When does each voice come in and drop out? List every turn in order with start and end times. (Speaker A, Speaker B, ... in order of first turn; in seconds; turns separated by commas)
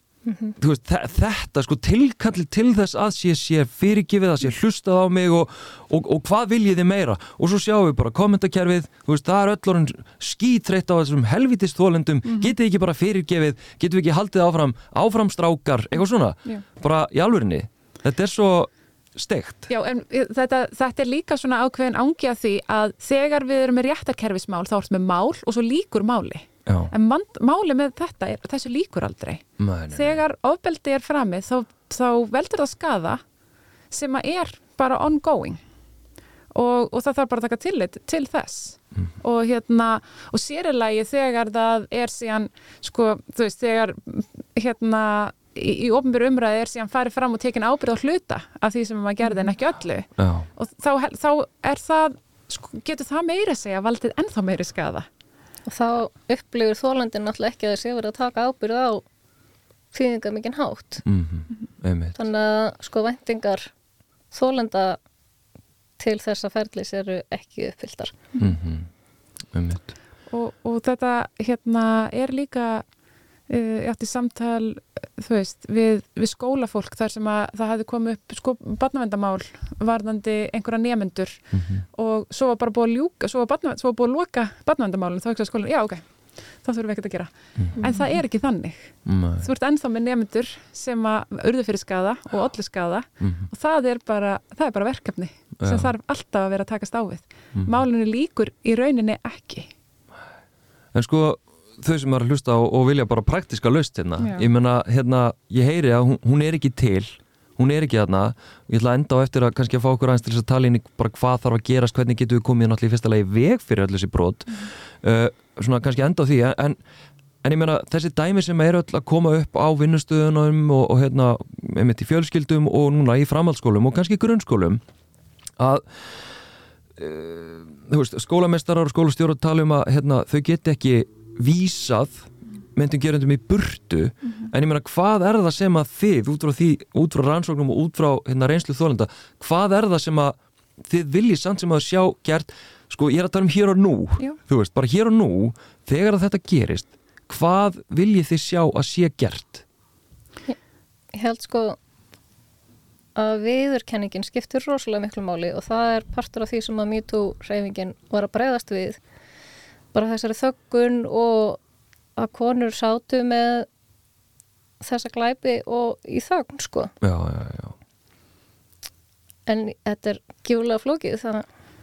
Speaker A: 0.3-0.5, Speaker B: 0.6-19.7, Speaker C: 19.7-33.2, Speaker B: 26.7-26.9, Speaker B: 29.6-30.2, Speaker C: 33.9-35.6, Speaker C: 36.5-55.1, Speaker B: 50.2-50.5, Speaker A: 55.7-59.0, Speaker A: 59.9-61.0, Speaker B: 61.0-62.2, Speaker A: 62.2-63.7, Speaker A: 64.3-65.0, Speaker A: 66.0-68.2, Speaker B: 68.4-68.9, Speaker B: 69.5-69.9, Speaker C: 70.3-72.9, Speaker C: 73.5-86.1, Speaker B: 81.5-81.8, Speaker C: 86.6-99.7, Speaker B: 87.6-87.8, Speaker B: 89.1-89.5, Speaker B: 93.2-93.5, Speaker B: 95.6-95.9, Speaker B: 97.5-97.8, Speaker B: 100.9-116.8, Speaker C: 104.2-104.5, Speaker B: 117.4-124.8, Speaker B: 125.6-125.9, Speaker B: 127.0-149.6, Speaker A: 151.1-151.8, Speaker A: 153.2-159.0, Speaker A: 159.9-161.6, Speaker A: 162.2-163.7, Speaker A: 164.8-166.9, Speaker B: 167.0-167.8, Speaker A: 169.5-171.5